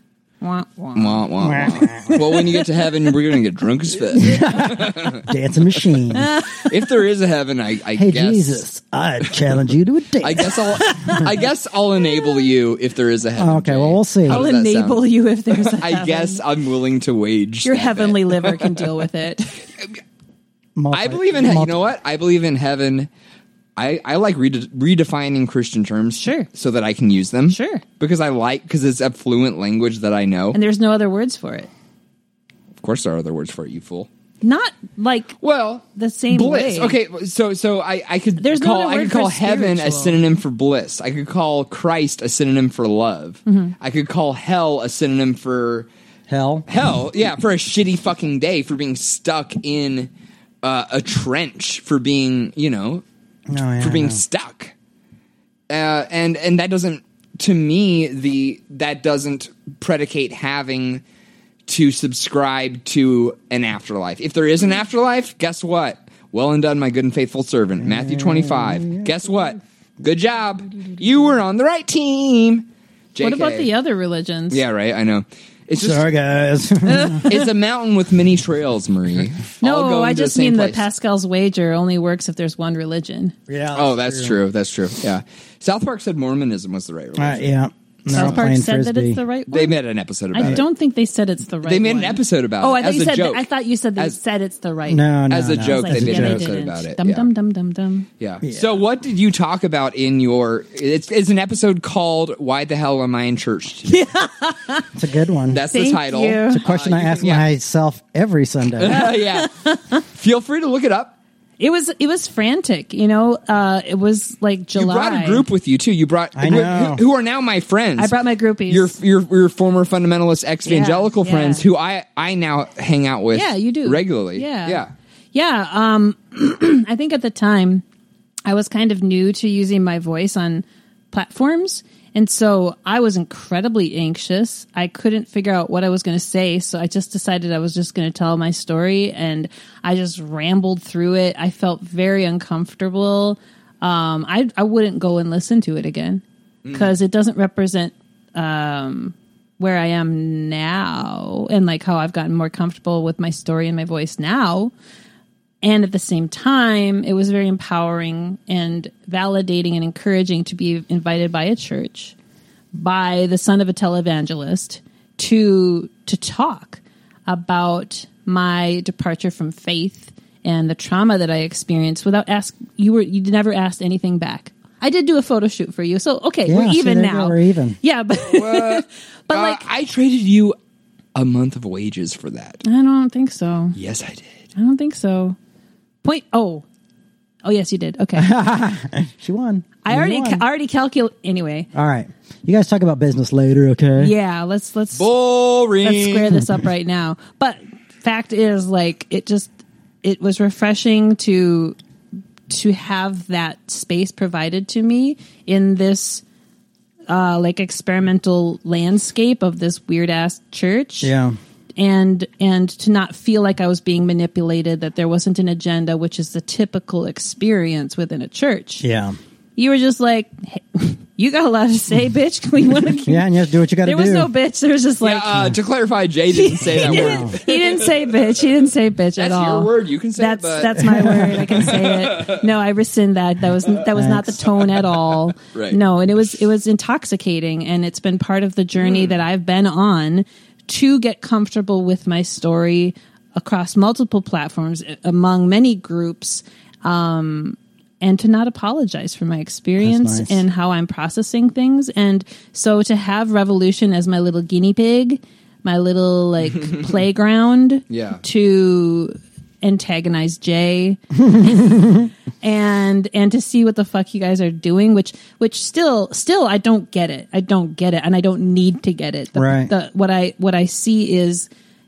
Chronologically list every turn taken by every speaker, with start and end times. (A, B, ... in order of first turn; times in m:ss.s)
0:00.4-0:01.5 A
0:01.0-0:05.2 B
0:01.4-0:02.6 C
0:04.1-0:06.4 C
0:06.2-0:06.7 A
0:06.5-0:08.6 B
0:07.9-0:11.3 C
0:10.2-0:18.9 B
0:10.7-0:11.3 A
0:13.4-0:14.4 C
0:14.3-0:16.4 A
0:17.6-0:19.5 A
0:20.8-0:21.8 C
0:20.9-0:23.1 B
0:23.8-0:30.6 B
0:26.2-0:26.5 A
0:27.5-0:27.8 A
0:30.5-0:31.7 A
0:32.8-0:34.1 B
0:34.4-0:35.3 A
0:35.4-0:45.9 B
0:35.9-0:37.0 A
0:38.4-0:40.2 A
0:43.5-0:43.7 A
0:46.3-0:46.7 C
0:46.7-0:50.1 B
0:50.6-0:53.0 B
0:53.5-0:54.2 C
0:53.8-0:54.7 B
0:55.7-1:01.0 B
1:01.7-1:13.7 B
1:07.8-1:09.3 C
1:13.2-1:14.6 A
1:14.5-1:16.0 B
1:15.8-1:17.3 C
1:16.9-1:17.5 A
1:17.2-1:20.9 B
1:19.6-1:23.3 A
1:23.5-1:24.4 C
1:23.7-1:27.5 B
1:27.2-1:29.2 C
1:28.1-1:29.8 A
1:28.1-1:28.4 B
1:29.5-1:30.6 B
1:30.3-1:35.1 A
1:31.6-1:34.2 B
1:34.9-1:36.5 C
1:35.3-1:37.3 B
1:35.6-1:38.1 A
1:38.2-1:44.1 B
1:38.4-1:38.7 C
1:43.9-1:44.9 A
1:44.9-1:45.6 C
1:45.5-1:47.4 B
1:45.7-1:46.6 A
1:46.5-1:49.0 C
1:48.8-1:49.5 B
1:48.8-1:50.0 A
1:50.1-1:51.2 B
1:51.6-1:55.4 A
1:54.7-1:58.2 B
1:56.3-1:57.0 C
1:58.0-1:59.0 A
1:58.7-2:04.9 B
2:00.6-2:01.6 A
2:03.3-2:04.8 A
2:05.3-2:07.8 A
2:08.4-2:34.7 A
2:26.6-2:26.9 B
2:35.6-2:42.1 A
2:42.7-2:59.6 A
2:56.4-2:57.8 C
2:58.2-3:00.6 B
3:01.1-3:02.6 B
3:02.6-3:03.8 A
3:03.8-3:04.3 B
3:04.5-3:05.4 A
3:06.0-3:06.6 A
3:07.4-3:08.3 A
3:08.2-3:10.4 C
3:09.8-3:11.7 A
3:11.7-3:14.1 C
3:14.0-3:15.1 A
3:15.0-3:16.4 B
3:15.8-3:19.5 A
3:20.0-3:21.8 A
3:22.5-3:26.2 A
3:27.1-3:31.1 A
3:31.0-3:31.4 C
3:31.8-3:38.9 A
3:38.8-3:39.2 C
3:39.6-3:43.2 A
3:43.1-3:44.3 C
3:43.8-3:45.5 A
3:45.0-3:48.0 B
3:46.3-4:21.8 A
3:46.8-3:47.4 C
3:49.2-3:52.5 B
3:50.7-3:51.5 C
3:53.9-3:54.4 C
3:55.4-3:55.8 B
3:58.8-3:59.2 B
4:09.8-4:10.4 C
4:17.9-4:18.2 B
4:21.2-4:22.1 C
4:22.4-4:31.5 A
4:29.3-4:29.7 C